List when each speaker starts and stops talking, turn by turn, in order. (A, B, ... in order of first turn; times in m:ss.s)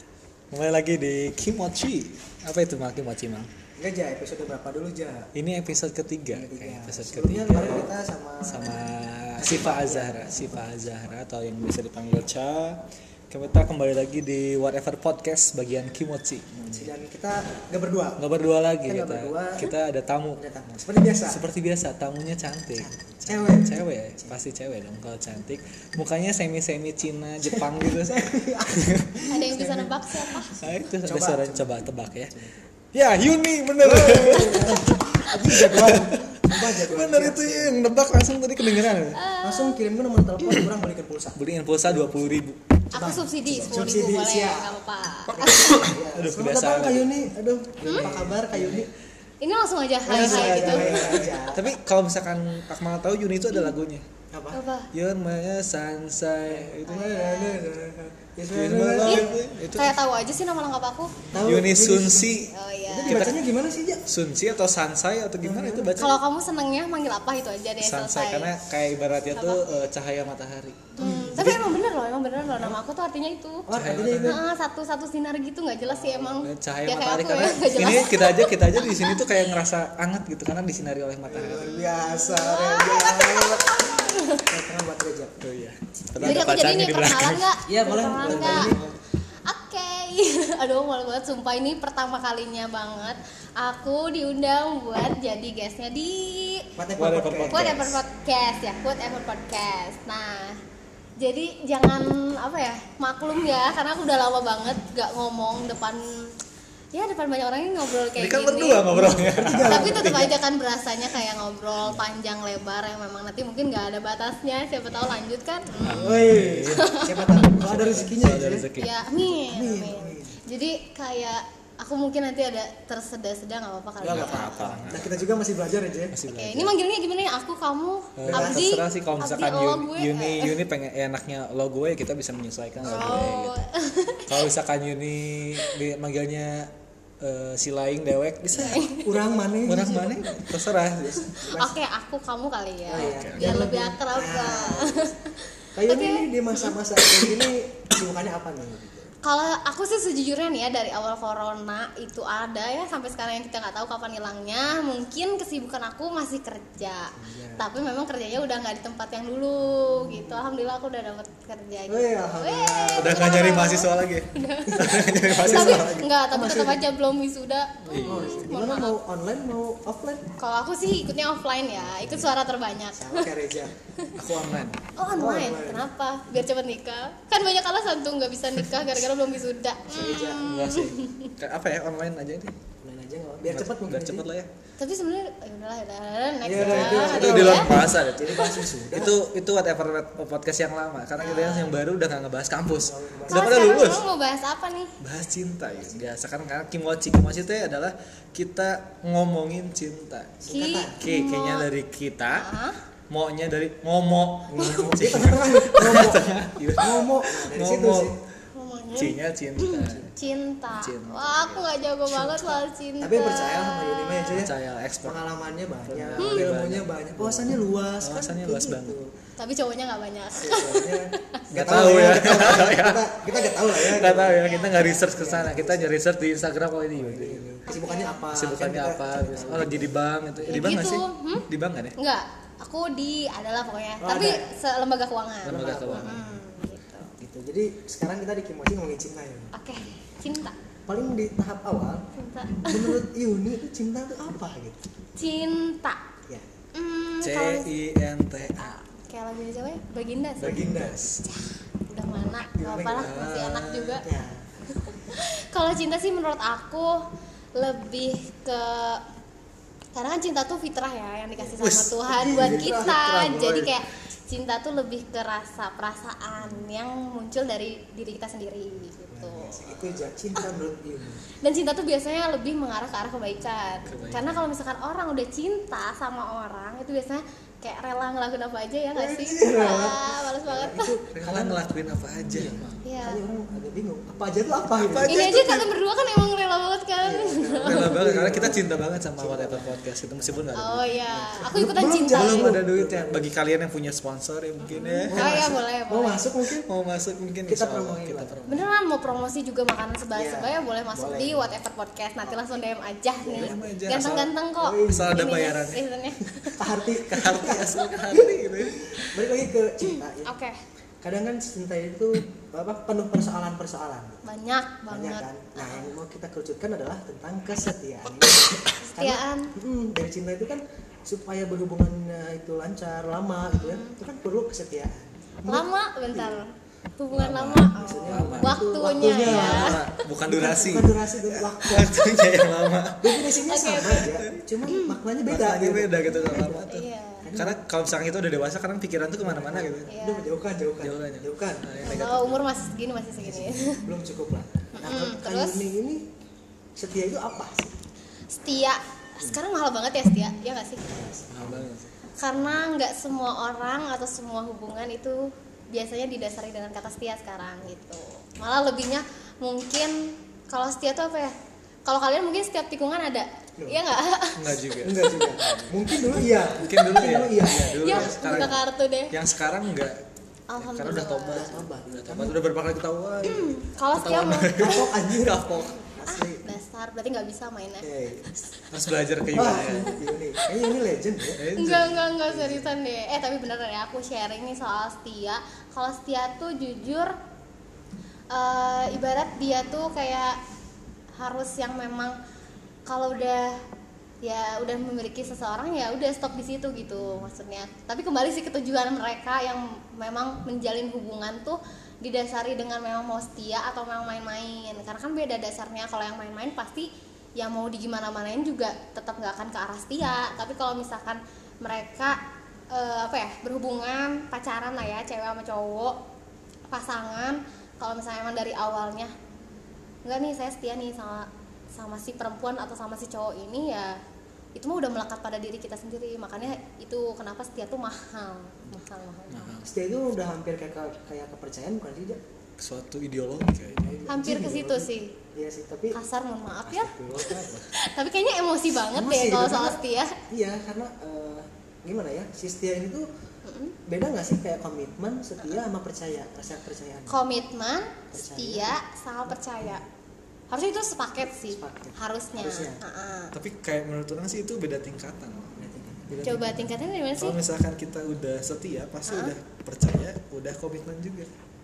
0:00.5-0:03.5 A
0:03.8-0:05.3 B
0:05.3-0:07.9 A
0:06.3-0:08.8 B
0:08.4-0:16.9 A
0:09.4-0:10.7 B
0:16.7-0:18.2 B
0:18.2-0:20.4 A
0:18.8-0:19.7 B
0:20.4-0:21.4 B
0:21.2-0:29.2 A
0:22.8-0:24.4 B
0:27.4-0:31.7 B
0:29.3-0:30.5 C
0:30.6-0:32.3 A
0:32.3-0:32.6 B
0:32.9-0:39.2 A
0:33.8-0:37.7 B
0:39.1-0:39.8 C
0:39.4-0:42.2 B
0:41.4-0:43.9 A
0:42.9-0:45.8 C
0:42.9-0:44.8 B
0:45.2-0:47.2 A
0:45.4-0:48.9 B
0:47.8-0:48.1 C
0:47.9-0:48.9 A
0:49.4-0:51.2 C
0:50.0-0:51.7 B
0:50.1-0:54.0 A
0:54.3-0:54.6 B
0:54.5-0:54.9 C
0:54.9-0:57.1 A
0:56.5-0:59.4 B
0:56.9-0:57.6 C
0:58.5-1:00.0 A
0:59.0-1:01.3 C
1:01.3-1:04.0 B
1:01.3-1:02.5 A
1:02.5-1:03.3 C
1:03.1-1:03.4 A
1:04.0-1:06.2 A
1:05.4-1:05.9 B
1:06.0-1:08.5 C
1:07.8-1:11.6 A
1:09.4-1:09.8 C
1:11.0-1:13.7 C
1:11.0-1:11.6 B
1:12.5-1:12.8 B
1:13.7-1:14.4 B
1:13.7-1:14.4 A
1:14.2-1:19.3 C
1:15.9-1:21.7 A
1:21.3-1:25.4 B
1:21.4-1:24.4 C
1:25.4-1:27.5 A
1:26.2-1:26.5 B
1:26.2-1:28.7 C
1:27.7-1:28.9 B
1:28.2-1:28.8 A
1:29.4-1:36.6 C
1:36.8-1:37.7 B
1:37.0-1:38.0 A
1:37.5-1:40.6 C
1:41.2-1:46.3 C
1:46.9-1:56.2 C
1:48.2-1:50.3 A
1:49.0-1:50.3 B
1:55.8-1:56.9 A
1:56.0-1:58.7 B
1:56.7-1:57.4 C
1:57.5-1:59.0 A
1:58.8-2:04.7 C
1:59.2-2:00.4 B
2:04.0-2:06.2 B
2:04.0-2:05.3 A
2:06.1-2:06.7 A
2:06.3-2:10.6 C
2:08.2-2:13.6 A
2:08.2-2:08.7 B
2:12.8-2:13.2 B
2:12.8-2:14.5 C
2:14.3-2:18.8 A
2:18.5-2:20.3 B
2:18.6-2:19.2 C
2:19.6-2:21.4 A
2:21.2-2:21.8 B
2:21.3-2:27.4 C
2:22.9-2:25.1 B
2:22.9-2:23.6 A
2:25.7-2:29.1 B
2:29.2-2:49.0 C
2:37.2-2:37.6 B
2:39.7-2:40.4 B
2:41.9-2:43.6 B
2:43.0-2:46.1 A
2:44.7-2:46.8 B
2:47.9-2:48.4 A
2:48.0-2:50.2 B
2:50.4-2:53.3 C
2:51.8-2:52.3 B
2:52.9-2:53.7 B
2:54.1-2:54.8 A
2:55.0-3:01.3 C
2:55.1-2:55.9 B
2:58.6-2:58.9 A
2:59.9-3:00.5 B
3:00.4-3:02.5 A
3:02.8-3:04.2 B
3:03.4-3:04.5 A
3:04.8-3:07.8 C
3:06.4-3:09.1 B
3:06.5-3:14.1 A
3:11.2-3:11.7 C
3:12.8-3:13.5 B
3:13.3-3:15.0 C
3:15.0-3:20.4 A
3:20.4-3:21.0 B
3:20.5-3:21.6 C
3:21.0-3:22.5 A
3:22.4-3:22.8 C
3:23.1-3:28.2 A
3:24.5-3:28.2 B
3:24.6-3:24.9 C
3:28.5-3:34.4 C
3:29.0-3:30.1 A
3:30.7-3:32.6 A
3:33.0-3:39.1 B
3:34.3-3:35.2 A
3:35.8-3:39.0 A
3:39.4-3:41.4 C
3:40.4-3:45.9 B
3:41.5-3:43.1 A
3:43.6-3:47.5 A
3:44.4-3:45.0 C
3:47.0-3:50.7 B
3:47.7-3:48.2 C
3:48.3-3:52.0 A
3:50.5-3:57.1 C
3:54.0-3:54.4 B
3:55.4-3:56.3 A
3:55.4-3:56.3 B
3:57.2-3:59.5 B
3:59.5-4:00.5 C
4:00.9-4:02.0 B
4:02.1-4:03.0 C
4:02.6-4:04.8 B
4:05.2-4:06.0 C
4:06.7-4:07.7 C
4:07.2-4:08.8 A
4:08.5-4:14.0 C
4:10.4-4:11.0 B
4:10.4-4:11.2 A
4:12.5-4:13.3 B
4:13.0-4:14.0 A
4:14.0-4:14.4 B
4:14.7-4:17.0 C
4:17.6-4:19.0 C
4:19.9-4:29.7 C
4:21.6-4:22.7 A
4:22.1-4:23.8 B
4:29.1-4:31.2 B
4:31.4-4:40.9 C
4:33.8-4:34.4 A
4:38.9-4:41.6 B
4:41.1-4:42.8 A
4:42.3-4:45.3 B
4:42.8-4:43.2 C
4:44.8-4:45.7 A
4:45.1-4:47.9 C
4:47.0-4:50.5 B
4:47.6-4:51.0 A
4:50.5-4:52.5 C
4:51.0-4:53.3 B
4:52.1-4:55.4 A
4:54.7-4:56.2 C
4:55.1-4:56.6 B
4:56.6-4:58.7 A
4:57.5-4:58.4 B
4:58.5-5:06.6 C
5:00.1-5:01.4 B
5:03.2-5:03.6 B
5:03.3-5:05.8 A
5:04.6-5:05.2 B
5:06.6-5:10.3 B
5:07.0-5:09.1 A
5:09.8-5:10.6 C
5:11.0-5:14.2 B
5:14.2-5:15.9 C
5:14.9-5:26.4 B
5:18.8-5:19.5 C
5:23.5-5:24.0 C
5:25.4-5:29.8 C
5:27.1-5:33.2 A
5:27.8-5:32.1 B
5:33.0-5:36.7 B
5:33.3-5:34.1 C
5:33.8-5:34.4 A
5:34.7-5:35.0 C
5:35.2-5:39.9 A
5:36.7-5:37.3 C
5:37.2-5:37.6 B
5:39.2-5:41.7 B
5:39.9-5:40.2 C
5:40.8-5:42.5 A
5:41.8-5:43.9 C
5:43.2-5:46.0 B
5:44.8-5:45.6 C
5:46.8-5:47.7 B
5:48.3-5:51.0 C
5:50.8-5:51.7 B
5:51.3-5:51.9 A
5:52.2-6:05.7 C
6:04.4-6:05.6 A
6:04.8-6:08.6 B
6:06.5-6:10.0 A
6:06.7-6:09.1 C
6:10.5-6:11.6 C
6:10.6-6:15.7 A
6:11.2-6:12.4 B
6:13.2-6:14.9 C
6:14.6-6:16.4 B
6:15.6-6:18.4 C
6:17.8-6:18.3 B
6:18.7-6:20.0 A
6:19.3-6:21.4 B
6:20.4-6:20.6 C
6:21.4-6:22.6 A
6:21.6-6:27.1 C
6:28.3-6:30.4 C
6:31.2-6:32.2 C
6:32.8-6:33.6 C
6:34.2-6:52.2 C
6:52.7-6:56.0 C
6:56.7-6:59.1 C
7:00.0-7:04.0 C
7:04.6-7:09.6 C
7:09.3-7:09.7 A
7:09.6-7:12.2 B
7:12.6-7:14.0 A
7:13.8-7:16.0 B
7:14.1-7:15.1 C
7:15.9-7:20.2 C
7:16.7-7:17.6 B
7:18.9-7:19.8 B
7:20.3-7:23.0 B
7:23.4-7:23.8 C
7:23.8-7:27.2 B
7:27.1-7:29.8 C
7:28.1-7:28.8 B
7:30.5-7:33.3 C
7:31.5-7:32.8 B
7:33.3-7:35.5 A
7:35.6-7:36.2 B
7:36.1-7:36.6 A
7:36.2-7:37.4 C
7:37.2-7:41.3 A
7:39.1-7:39.3 C